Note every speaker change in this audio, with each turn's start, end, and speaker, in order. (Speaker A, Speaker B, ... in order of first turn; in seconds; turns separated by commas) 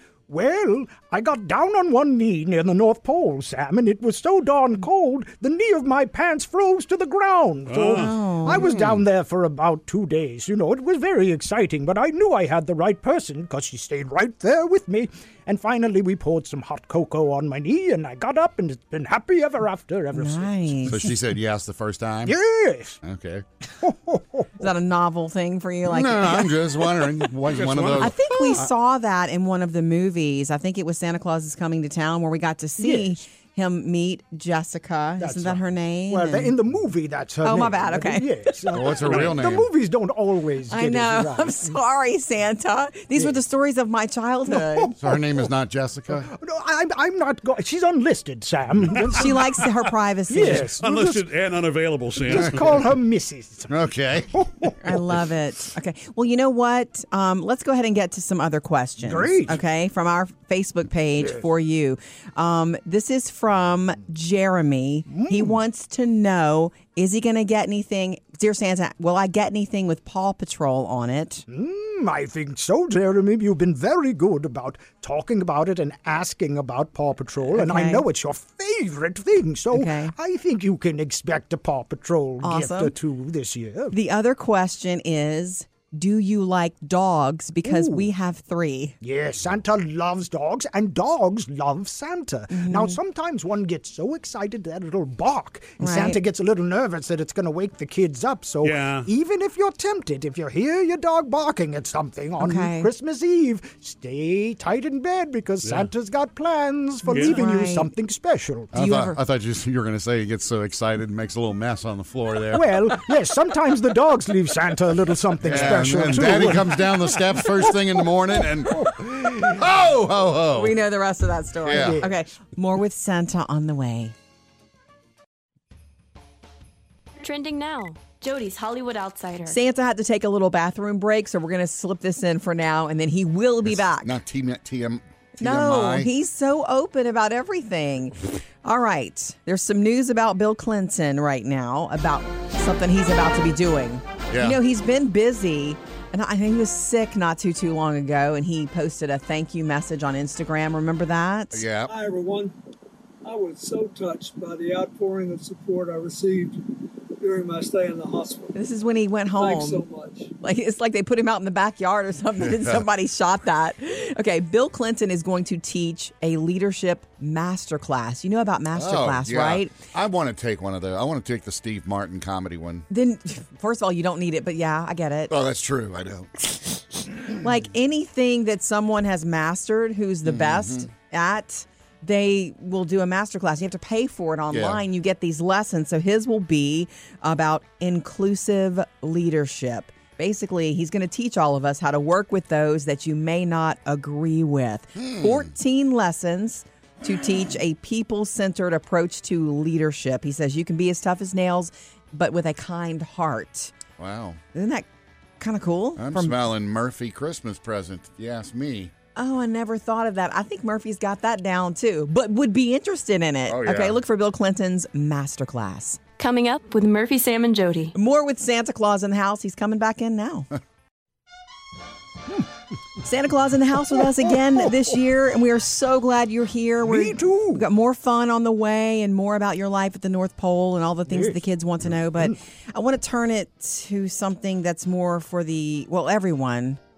Speaker A: 0.3-20.9, Speaker B: 7.7-8.1, Speaker C: 7.9-8.7, Speaker D: 8.5-9.0, Speaker C: 20.1-21.1, Speaker D: 20.9-22.4, Speaker A: 22.2-23.0, Speaker D: 23.0-23.4, Speaker A: 23.8-24.6, Speaker C: 24.6-26.6, Speaker D: 25.9-28.2, Speaker B: 27.5-28.1, Speaker C: 28.0-36.5, Speaker A: 32.8-33.2, Speaker A: 35.2-41.8, Speaker C: 37.4-38.5, Speaker D: 38.7-39.7, Speaker B: 39.0-39.4, Speaker C: 40.7-45.0, Speaker A: 44.5-45.2, Speaker D: 45.0-46.3, Speaker A: 46.1-49.7, Speaker C: 49.1-50.8, Speaker A: 50.3-51.3, Speaker B: 50.8-52.8, Speaker A: 52.2-53.7, Speaker D: 52.3-52.7, Speaker D: 53.7-54.7, Speaker A: 54.3-54.8, Speaker C: 54.8-71.4, Speaker A: 59.0-59.6, Speaker A: 65.1-65.6, Speaker A: 71.5-84.0, Speaker C: 77.5-78.0, Speaker C: 79.7-80.1, Speaker C: 82.4-82.9, Speaker C: 83.9-88.9, Speaker A: 87.6-88.1, Speaker A: 89.0-108.7, Speaker C: 92.5-93.0, Speaker C: 95.8-96.2, Speaker B: 98.6-99.1, Speaker C: 102.4-102.9, Speaker B: 105.6-105.9, Speaker C: 107.1-107.9, Speaker B: 107.1-107.4, Speaker C: 108.7-109.2, Speaker D: 108.7-112.9, Speaker A: 112.5-117.7, Speaker D: 115.4-120.8, Speaker A: 118.4-119.6, Speaker C: 120.4-124.1, Speaker D: 121.6-122.0, Speaker A: 121.7-122.1, Speaker E: 127.2-129.6, Speaker C: 129.5-134.1, Speaker D: 133.6-136.1, Speaker C: 135.4-151.7, Speaker D: 144.3-144.6, Speaker D: 151.5-151.9, Speaker F: 151.8-152.5, Speaker F: 153.2-158.6, Speaker C: 158.6-159.8, Speaker F: 159.3-160.3, Speaker C: 160.4-169.7, Speaker D: 162.4-162.9, Speaker D: 168.7-172.8, Speaker C: 172.9-175.3, Speaker D: 175.3-176.5, Speaker C: 177.2-203.7, Speaker D: 180.2-180.9, Speaker D: 184.5-184.8, Speaker D: 194.9-195.5, Speaker D: 204.0-204.4, Speaker C: 204.5-204.9, Speaker C: 205.4-206.3, Speaker D: 206.0-208.9, Speaker C: 209.1-216.0, Speaker D: 213.5-214.0, Speaker E: 216.2-217.9, Speaker C: 217.9-220.5, Speaker C: 223.0-236.8, Speaker A: 226.8-227.7, Speaker A: 231.1-231.4